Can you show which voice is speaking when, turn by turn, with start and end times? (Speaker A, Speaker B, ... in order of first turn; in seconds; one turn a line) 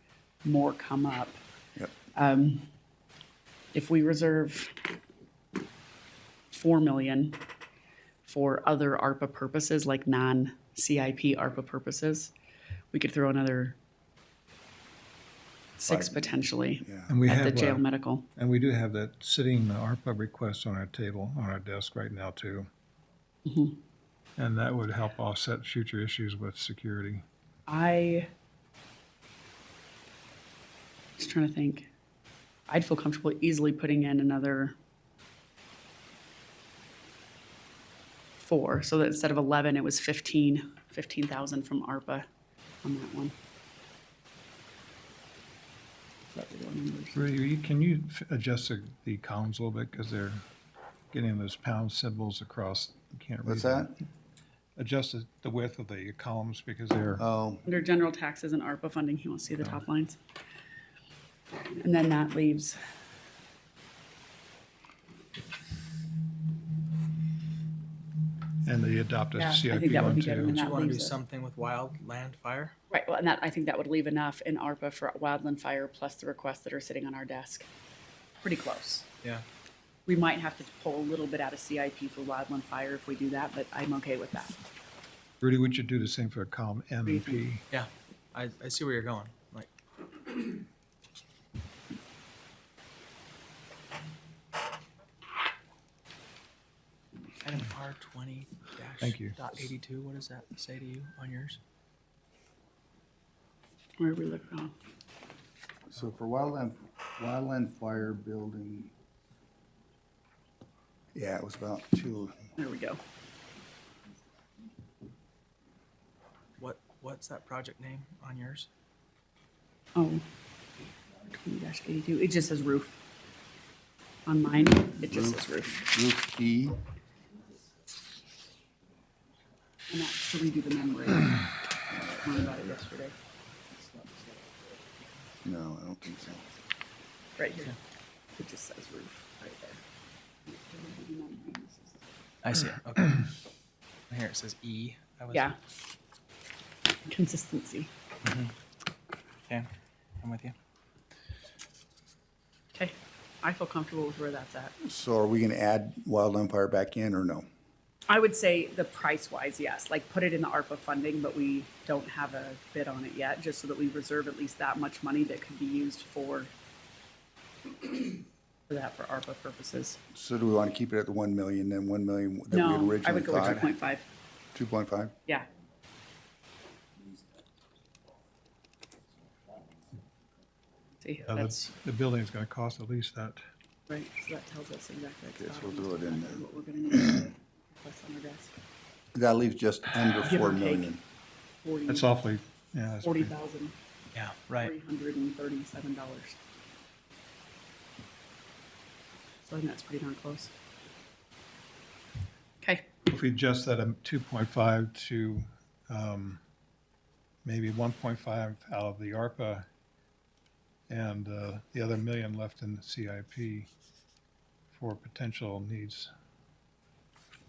Speaker A: 0.4-1.4
Speaker A: 2.1-2.7
Speaker A: 3.7-4.8
Speaker A: 6.5-7.4
Speaker A: 8.3-12.3
Speaker A: 12.9-13.8
Speaker A: 15.8-18.3
Speaker B: 15.9-17.1
Speaker C: 17.1-17.9
Speaker C: 18.4-22.7
Speaker A: 23.4-23.8
Speaker C: 24.4-27.2
Speaker A: 27.7-28.3
Speaker A: 31.2-31.9
Speaker A: 32.7-34.7
Speaker A: 38.4-42.3
Speaker A: 42.8-43.4
Speaker A: 46.3-47.2
Speaker C: 47.1-50.5
Speaker C: 51.1-54.0
Speaker B: 53.5-53.9
Speaker C: 54.8-57.2
Speaker B: 57.2-57.6
Speaker A: 57.6-60.2
Speaker A: 61.8-62.8
Speaker C: 68.6-70.6
Speaker A: 69.3-71.2
Speaker D: 70.5-72.7
Speaker A: 72.9-77.7
Speaker A: 78.4-79.1
Speaker A: 80.1-84.6
Speaker C: 85.4-87.6
Speaker A: 87.0-87.5
Speaker D: 87.7-89.7
Speaker D: 97.4-101.6
Speaker C: 99.0-99.4
Speaker A: 104.0-104.8
Speaker B: 105.9-108.9
Speaker B: 111.1-112.4
Speaker A: 112.6-113.0
Speaker D: 116.6-118.7
Speaker A: 120.0-120.2
Speaker A: 121.2-123.0
Speaker A: 124.3-125.8
Speaker B: 125.1-126.8
Speaker A: 129.9-133.2
Speaker B: 135.4-136.5
Speaker A: 137.4-137.8
Speaker A: 138.4-139.8
Speaker A: 140.5-142.1
Speaker D: 142.4-143.3
Speaker D: 144.1-145.5
Speaker A: 147.1-147.9
Speaker D: 148.2-148.5
Speaker D: 150.2-150.6
Speaker A: 152.8-154.7
Speaker B: 154.8-157.4
Speaker A: 158.1-166.5
Speaker A: 168.7-170.0
Speaker B: 170.1-173.7
Speaker A: 172.5-174.1
Speaker B: 174.5-175.2
Speaker A: 181.0-181.7
Speaker C: 181.3-183.4
Speaker A: 183.9-188.5
Speaker B: 185.3-186.4
Speaker B: 189.1-191.0
Speaker A: 190.2-190.9
Speaker A: 191.6-192.1
Speaker C: 191.9-193.3
Speaker A: 193.0-193.8
Speaker D: 194.1-194.7
Speaker A: 194.5-196.4
Speaker A: 199.4-200.5
Speaker C: 203.1-206.4
Speaker C: 207.4-209.7
Speaker C: 210.9-213.7
Speaker C: 214.7-216.1